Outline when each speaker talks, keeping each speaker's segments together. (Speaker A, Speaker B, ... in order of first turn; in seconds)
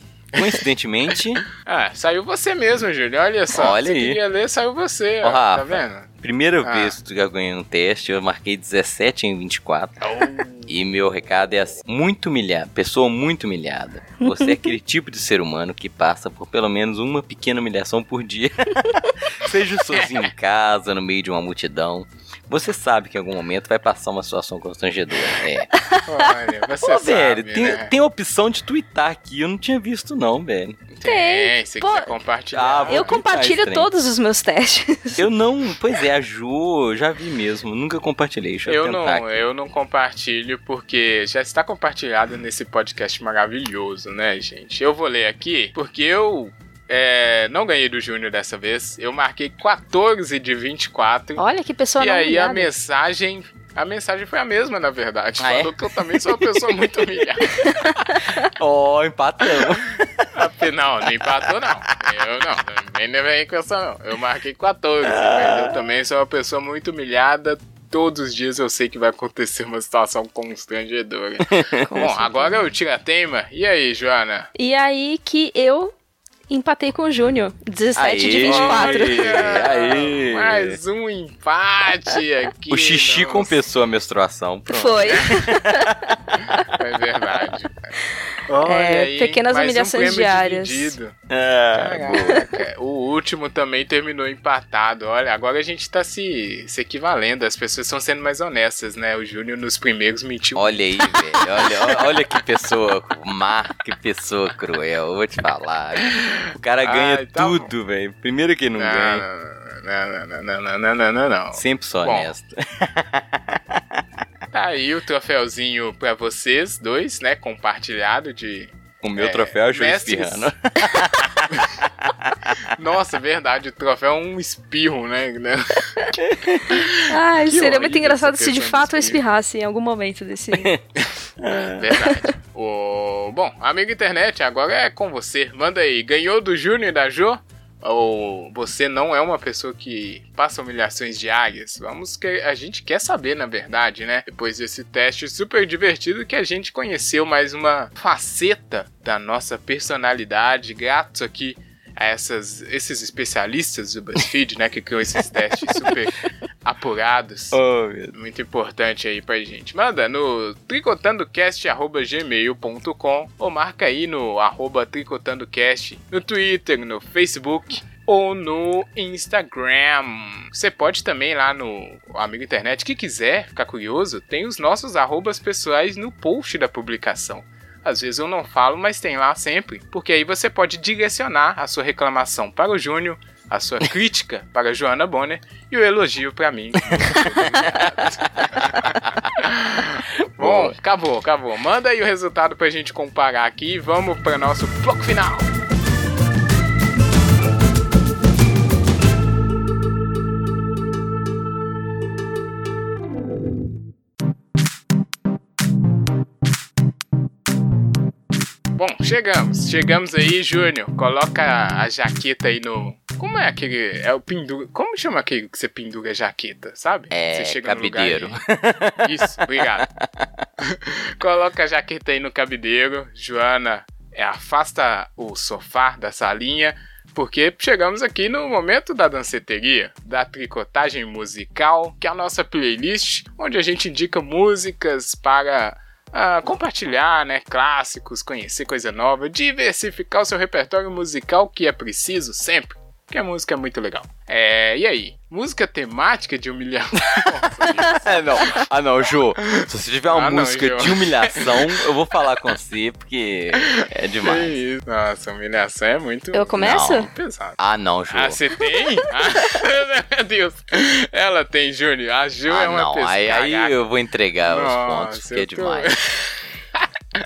Speaker A: 0.3-0.6, 1.5-6.1, 6.6-7.0, 10.0-10.7, 26.0-27.9, 30.9-33.1, 38.6-51.4, 52.0-57.6, 60.3-74.5, 78.4-83.6, 86.4-87.9, 88.5-91.2, 91.7-101.7, 106.8-107.7, 108.8-112.3, 114.5-120.5, 122.7-129.2, 131.5-157.6, 158.1-195.5, 208.8-218.4, 219.0-219.9, 220.6-248.6, 249.5-251.8, 253.6-257.6, 258.1-263.8, 264.4-266.8
Speaker B: 0.3-1.4, 3.5-4.2, 5.2-25.7, 26.8-30.8, 32.5-33.9, 35.2-39.4, 55.4-57.4, 58.0-60.3, 61.2-62.2, 65.0-65.8, 71.4-72.1, 77.9-80.8, 82.7-86.6, 91.3-92.5, 100.5-109.2, 111.5-114.0, 119.0-122.6, 126.2-126.8, 130.5-130.8, 131.4-131.8, 157.5-158.1, 186.9-189.3, 190.4-190.8, 217.1-220.4, 247.1-254.6, 256.6-258.4, 262.5-265.9
Speaker C: 14.2-14.7, 31.0-32.1, 32.9-35.3, 51.4-52.7, 57.6-58.2, 71.9-72.8, 74.5-75.9, 76.5-79.4, 84.7-85.9, 88.6-91.0, 126.9-130.7, 256.3-257.1